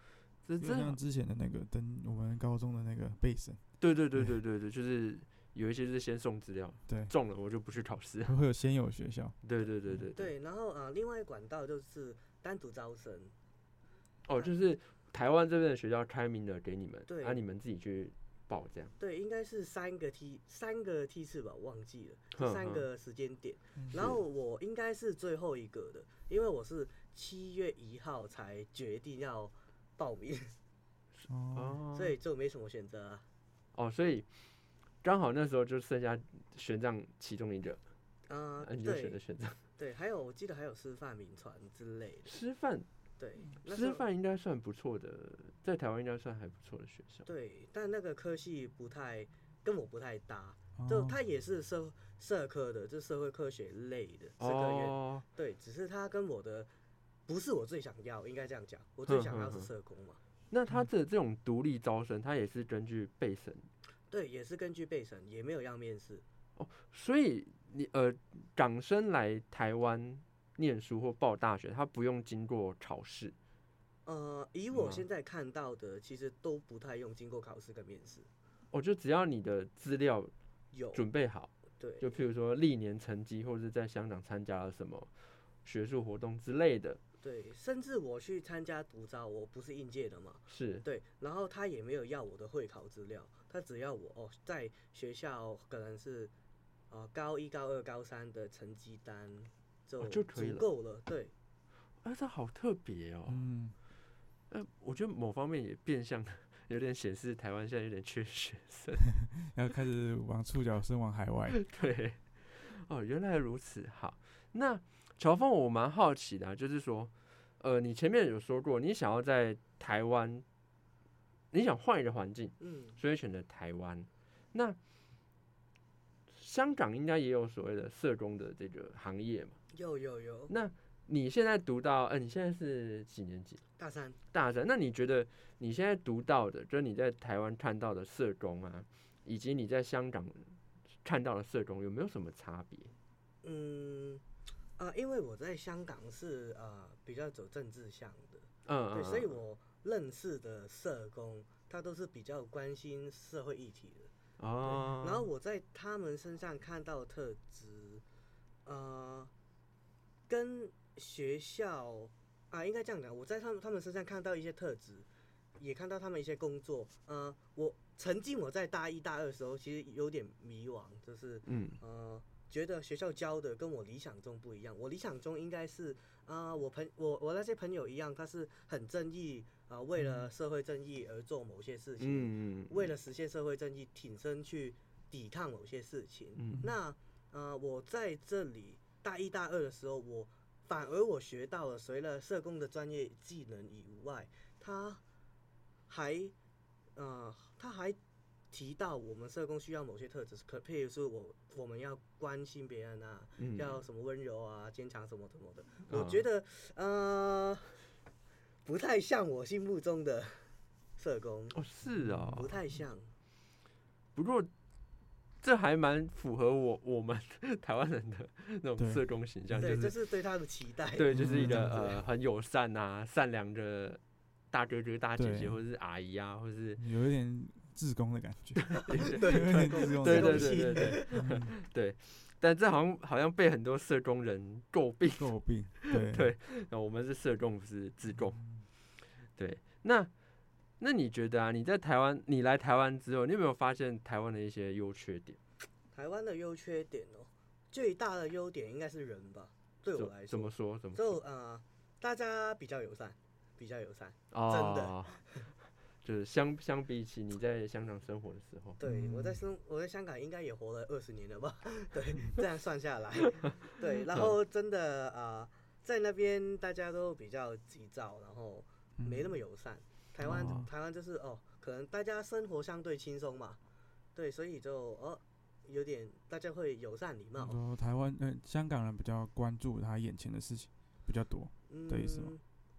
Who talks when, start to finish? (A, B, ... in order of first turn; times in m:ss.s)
0:00.4-0:01.0 A
0:00.6-0:03.6 B
0:03.8-0:08.3 A
0:08.2-0:09.4 B
0:09.4-0:10.3 A
0:10.1-0:13.3 C
0:14.2-0:18.9 A
0:17.1-0:17.4 C
0:19.0-0:30.5 C
0:22.3-0:22.8 A
0:23.8-0:24.0 B
0:23.9-0:24.2 A
0:31.3-0:31.8 B
0:31.5-0:32.2 A
0:31.9-0:33.2 C
0:33.7-0:34.3 A
0:35.0-0:37.8 A
0:38.3-0:39.2 C
0:38.6-0:39.6 A
0:39.8-0:42.3 C
0:42.2-0:42.9 A
0:43.2-0:44.0 C
0:43.6-0:47.2 A
0:47.2-0:56.7 C
0:50.8-0:51.2 B
0:54.4-0:55.2 A
0:57.3-1:00.2 C
0:59.1-0:59.7 A
1:00.5-1:03.7 A
1:04.1-1:06.2 C
1:06.6-1:13.3 A
1:14.0-1:18.3 C
1:14.7-1:15.0 A
1:18.7-1:20.3 A
1:20.7-1:21.0 C
1:20.9-1:27.0 A
1:21.8-1:22.1 C
1:27.2-1:36.3 C
1:30.5-1:30.8 A
1:36.9-1:41.3 C
1:40.0-1:40.6 A
1:42.0-1:43.4 A
1:43.3-1:43.7 B
1:44.5-1:49.0 A
1:49.2-1:51.6 B
1:51.5-2:00.4 A
2:01.5-2:04.8 A
2:02.6-2:03.0 C
2:06.3-2:09.6 A
2:09.7-2:10.5 C
2:10.5-2:13.6 A
2:13.8-2:14.2 C
2:14.3-2:22.9 A
2:23.4-2:24.2 C
2:24.8-2:34.1 C
2:28.6-2:29.4 A
2:34.4-2:35.3 A
2:34.6-2:38.0 C
2:38.6-2:39.3 C
2:40.3-2:45.1 C
2:45.6-3:15.0 C
2:51.4-2:51.8 A
3:00.0-3:00.2 B
3:02.0-3:02.9 A
3:06.4-3:06.6 A
3:15.9-3:16.3 C
3:17.0-3:18.0 C
3:18.5-3:27.8 C
3:23.4-3:23.8 A
3:25.9-3:26.2 A
3:28.6-3:31.6 C
3:31.5-3:32.6 A
3:32.0-3:32.4 B
3:32.3-3:33.1 C
3:34.1-3:34.5 A
3:35.4-3:40.0 A
3:38.8-3:39.7 B
3:39.6-3:42.0 C
3:40.9-3:44.0 A
3:41.1-3:41.8 B
3:44.5-3:46.8 A
3:45.2-3:45.6 B
3:46.8-3:51.5 B
3:48.6-3:58.4 A
3:49.0-3:51.3 C
3:55.2-3:56.3 B
3:58.2-3:58.6 B
3:59.2-4:00.1 A
4:00.8-4:05.4 A
4:05.9-4:15.4 C
4:10.0-4:11.2 A
4:14.3-4:15.2 A
4:16.0-4:18.8 A
4:18.8-4:33.6 C
4:18.8-4:19.4 B
4:29.0-4:29.4 B
4:30.2-4:30.7 B
4:30.2-4:30.6 A
4:34.1-4:37.6 C
4:37.4-4:42.3 B
4:41.7-4:42.4 C